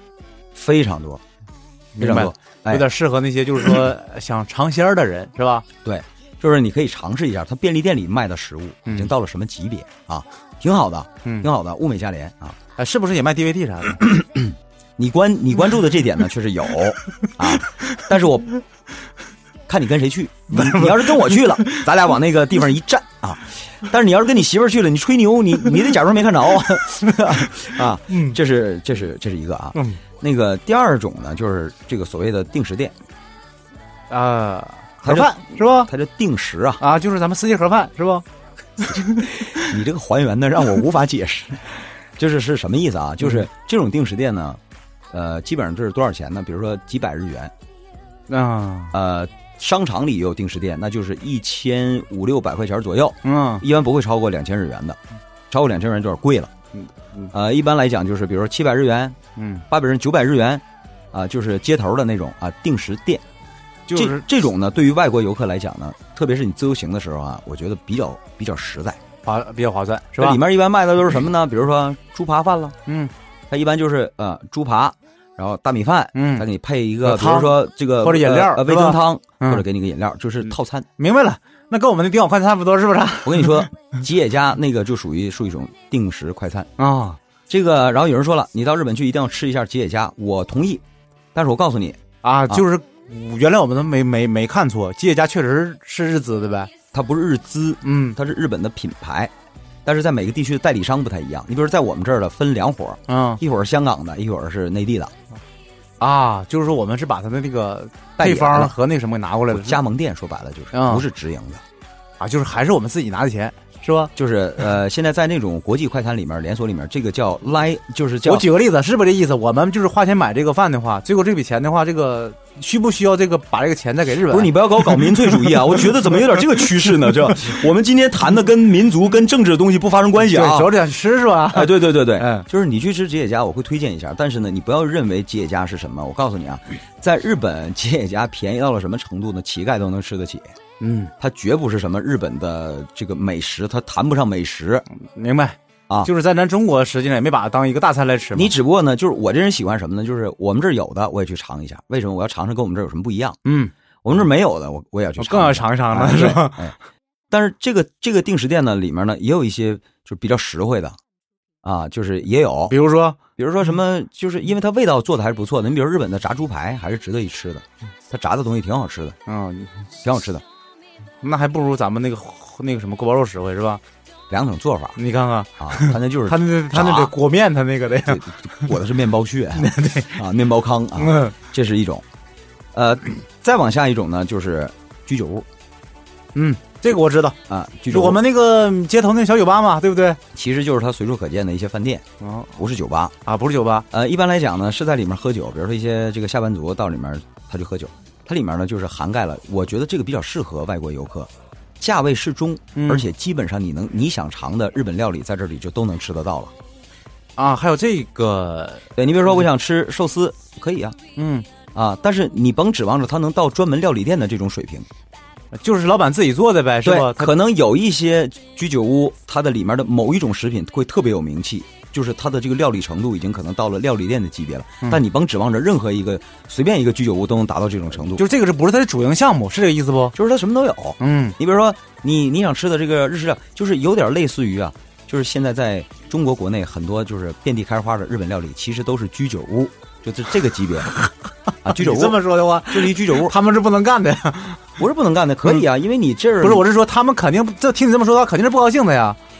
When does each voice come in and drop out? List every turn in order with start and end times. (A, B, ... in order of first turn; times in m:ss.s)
0:00.5-0:01.2 A
0:02.0-0:05.6 B
0:02.0-0:02.9 A
0:05.8-0:12.6 A
0:08.8-0:09.1 B
0:12.8-0:14.0 B
0:14.1-0:18.6 A
0:19.7-0:32.9 A
0:20.5-0:21.8 B
0:27.2-0:27.5 B
0:28.1-0:28.4 B
0:29.7-0:30.0 B
0:34.1-0:35.9 B
0:35.0-0:36.8 A
0:36.8-0:38.2 B
0:38.8-0:39.6 B
0:39.3-0:44.6 A
0:45.1-0:47.5 A
0:48.3-0:48.9 B
0:48.9-0:55.0 A
0:53.2-0:53.6 B
0:55.5-0:56.5 A
0:56.7-0:57.3 B
0:57.3-0:59.2 A
0:59.4-0:59.6 B
0:59.7-1:03.2 A
1:03.9-1:04.2 B
1:03.9-1:09.0 A
1:09.2-1:10.4 B
1:10.2-1:12.7 A
1:12.8-1:13.1 B
1:13.5-1:20.9 A
1:16.1-1:16.4 B
1:17.0-1:19.6 B
1:21.0-1:23.7 B
1:23.2-1:26.7 A
1:26.8-1:27.2 B
1:27.5-1:30.8 A
1:31.3-1:32.6 A
1:32.2-1:36.7 B
1:36.9-1:39.3 A
1:37.8-1:38.2 B
1:39.8-1:45.1 A
1:43.1-1:43.4 B
1:46.0-1:49.8 B
1:48.2-1:48.7 A
1:49.5-1:51.6 A
1:50.7-1:51.0 B
1:52.2-1:54.1 B
1:54.1-1:58.5 A
1:58.2-2:06.4 B
2:04.3-2:10.7 A
2:10.2-2:12.4 B
2:11.5-2:20.5 A
2:20.8-2:21.1 B
2:21.2-2:24.8 A
2:25.0-2:28.6 B
2:28.3-2:33.4 A
2:33.4-2:33.7 B
2:34.0-2:36.7 A
2:35.2-2:36.7 B
2:37.3-2:41.0 A
2:41.6-2:42.8 A
2:42.7-2:43.2 B
2:43.4-2:49.2 A
2:49.3-2:49.9 B
2:50.0-2:50.4 A
2:51.2-2:53.8 B
2:54.3-2:55.0 A
2:55.0-2:58.7 B
2:55.6-2:57.1 A
2:58.0-3:02.0 A
2:59.5-3:00.2 B
3:01.0-3:01.3 B
3:02.7-3:05.4 A
3:06.3-3:10.2 B
3:07.5-3:08.2 A
3:10.3-3:12.0 A
3:12.2-3:12.5 B
3:12.6-3:13.1 A
3:13.2-3:13.8 B
3:13.9-3:26.5 A
3:22.8-3:23.1 B
3:27.4-3:28.9 B
3:29.0-3:31.0 A
3:31.2-3:31.5 B
3:31.7-3:34.9 A
3:35.5-3:37.3 B
3:36.8-3:48.2 A
3:48.1-3:50.2 B
3:50.1-4:01.0 A
3:51.0-3:51.4 B
4:01.6-4:03.3 A
4:01.6-4:04.7 B
4:04.8-4:06.6 A
4:06.4-4:09.2 B